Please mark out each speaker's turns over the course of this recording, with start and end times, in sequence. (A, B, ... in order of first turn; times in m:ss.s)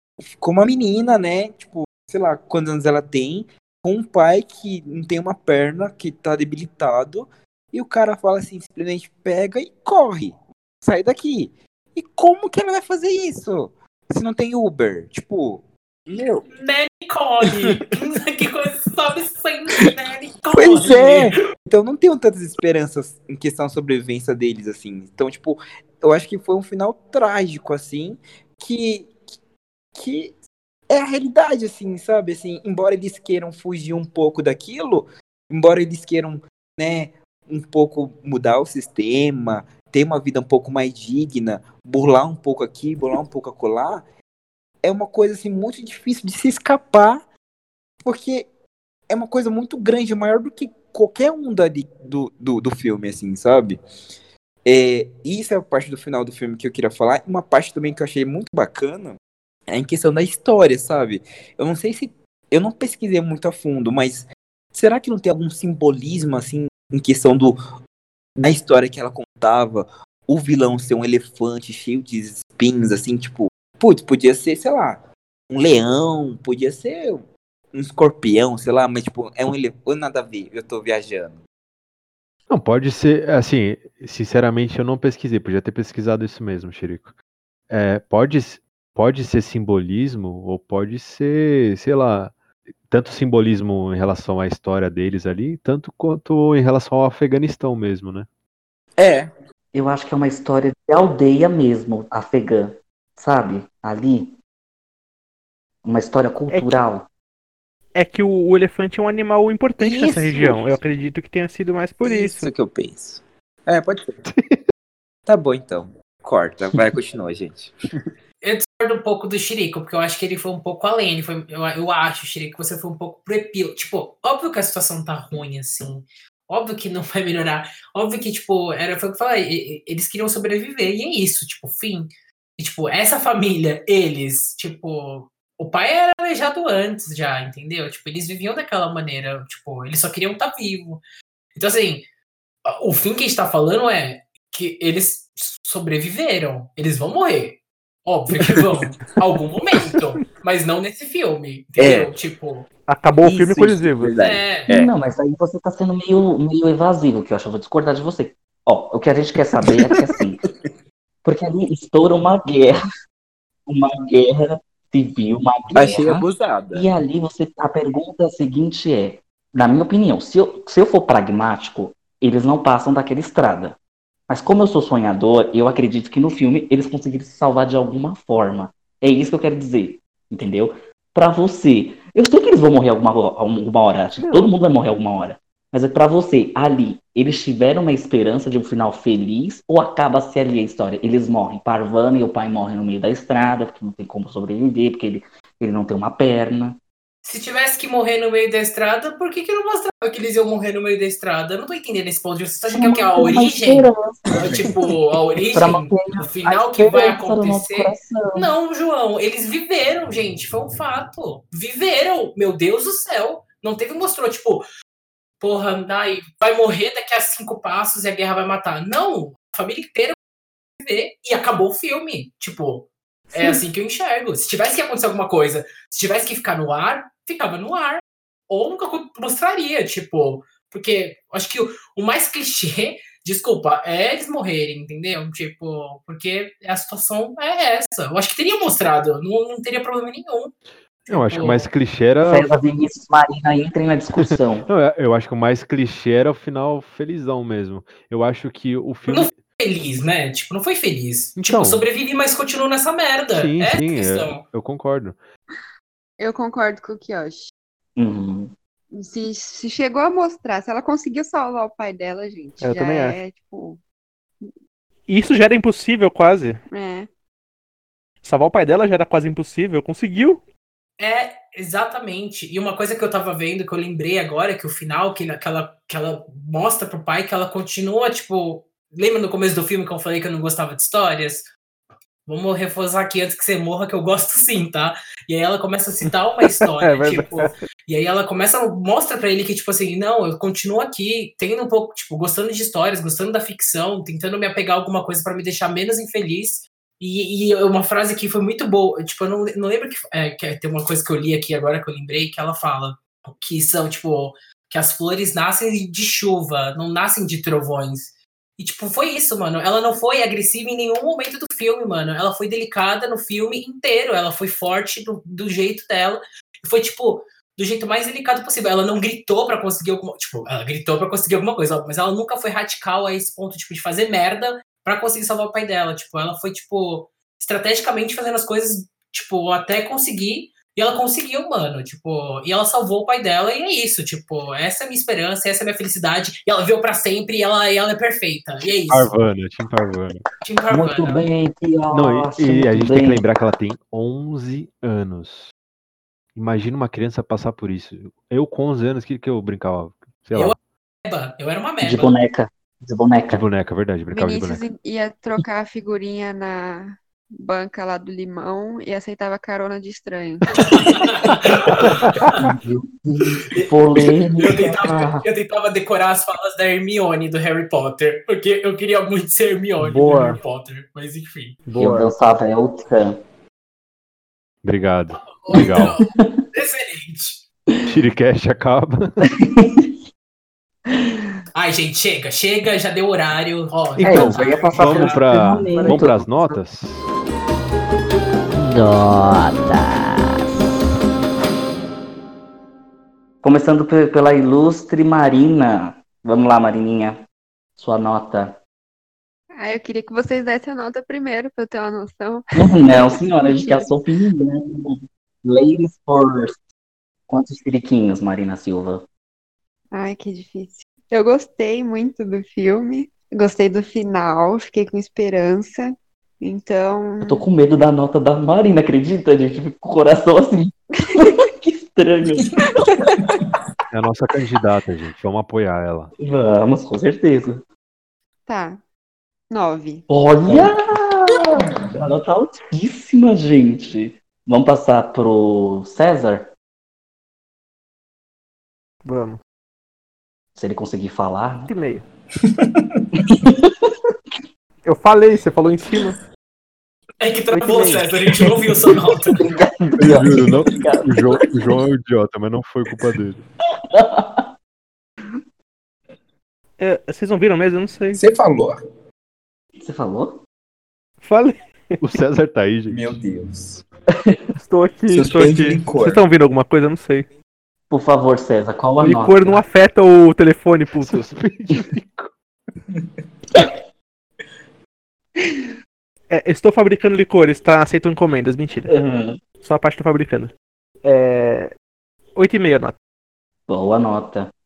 0:00.3-0:16.5 A
0:16.5-0:21.4 B
0:20.5-0:29.1 A
0:30.0-0:30.4 A
0:30.9-0:44.0 A
0:44.8-0:47.2 A
0:48.0-0:48.5 A
0:49.1-0:53.8 A
0:54.6-0:59.2 A
0:59.7-1:07.6 A
1:08.4-1:21.4 A
1:22.5-1:27.1 C
1:27.7-1:32.4 C
1:32.9-1:38.3 C
1:39.0-1:39.3 A
1:39.7-1:44.4 D
1:45.8-1:47.1 D
1:48.0-1:52.5 E
1:49.8-1:50.2 A
1:49.9-1:50.4 B
1:52.0-1:54.2 A
1:54.3-1:54.6 C
1:55.3-1:57.8 A
1:58.4-2:21.0 B
2:21.6-2:22.0 B
2:22.6-2:32.7 B
2:31.8-2:32.2 A
2:32.9-2:34.2 E
2:33.2-2:34.9 A
2:34.2-2:34.7 B
2:34.7-2:40.4 D
2:41.2-2:42.8 D
2:43.7-2:53.8 D
2:45.7-2:46.9 A
2:54.3-3:16.8 D
3:04.2-3:04.5 E
3:17.2-3:34.6 B
3:22.7-3:24.8 D
3:25.6-3:28.5 D
3:35.4-3:40.2 B
3:40.8-4:00.5 B
4:01.1-4:01.7 B
4:01.1-4:02.5 C
4:02.3-4:04.7 D
4:04.2-4:09.4 C
4:09.1-4:14.4 B
4:11.4-4:11.9 C
4:13.3-4:15.2 C
4:16.2-4:17.5 F
4:18.0-4:18.5 D
4:18.9-4:23.8 F
4:22.6-4:23.2 E
4:25.1-4:26.6 E
4:26.7-4:27.1 F
4:28.2-4:30.4 E
4:31.0-4:41.5 B
4:42.3-5:39.1 B
4:46.6-4:47.6 E
5:38.9-5:40.2 C
5:40.4-5:41.3 B
5:40.7-5:43.3 D
5:41.9-5:45.5 C
5:46.4-5:50.6 C
5:50.4-5:52.2 B
5:51.8-5:53.4 D
5:53.3-5:54.6 C
5:54.1-6:00.8 F
6:00.6-6:02.4 B
6:01.8-6:05.2 D
6:03.6-6:11.6 B
6:09.8-6:10.4 E
6:11.7-6:12.1 E
6:11.8-6:13.2 D
6:14.6-6:16.0 C
6:15.2-6:17.4 B
6:15.8-6:16.4 D
6:17.9-6:19.3 C
6:19.4-6:19.8 D
6:20.9-6:21.3 D
6:21.6-6:25.2 B
6:24.0-6:27.1 C
6:24.0-6:26.6 D
6:28.5-6:30.4 D
6:33.4-6:37.2 D
6:37.8-6:38.6 D
6:39.6-6:43.9 F
6:42.6-6:46.6 D
6:47.3-6:49.1 D
6:49.9-6:57.4 F
6:57.2-7:03.1 D
7:02.9-7:03.4 F
7:03.9-7:06.1 C
7:06.2-7:07.6 D
7:08.5-7:08.8 F
7:09.5-7:10.1 F
7:10.1-7:16.5 D
7:19.0-7:19.4 E
7:20.6-7:21.7 D
7:21.7-7:22.0 E
7:23.2-7:23.9 D
7:24.8-7:26.2 E
7:27.2-7:29.4 B
7:27.5-7:28.1 E
7:29.4-7:31.8 D
7:30.0-7:33.4 C
7:33.9-7:34.5 D
7:36.8-7:38.2 E
7:38.1-7:38.8 A
7:39.8-7:40.4 D
7:41.2-7:42.0 E
7:42.0-7:43.1 C
7:42.9-7:43.8 A
7:44.6-7:47.3 E
7:45.1-7:46.2 A
7:47.9-7:49.6 D
7:49.0-7:51.3 E
7:51.0-7:52.3 C
7:56.3-7:59.0 E
7:58.9-7:59.4 D
7:59.6-8:00.5 E
8:01.0-8:01.7 E
8:02.4-8:03.0 E
8:03.7-8:04.5 D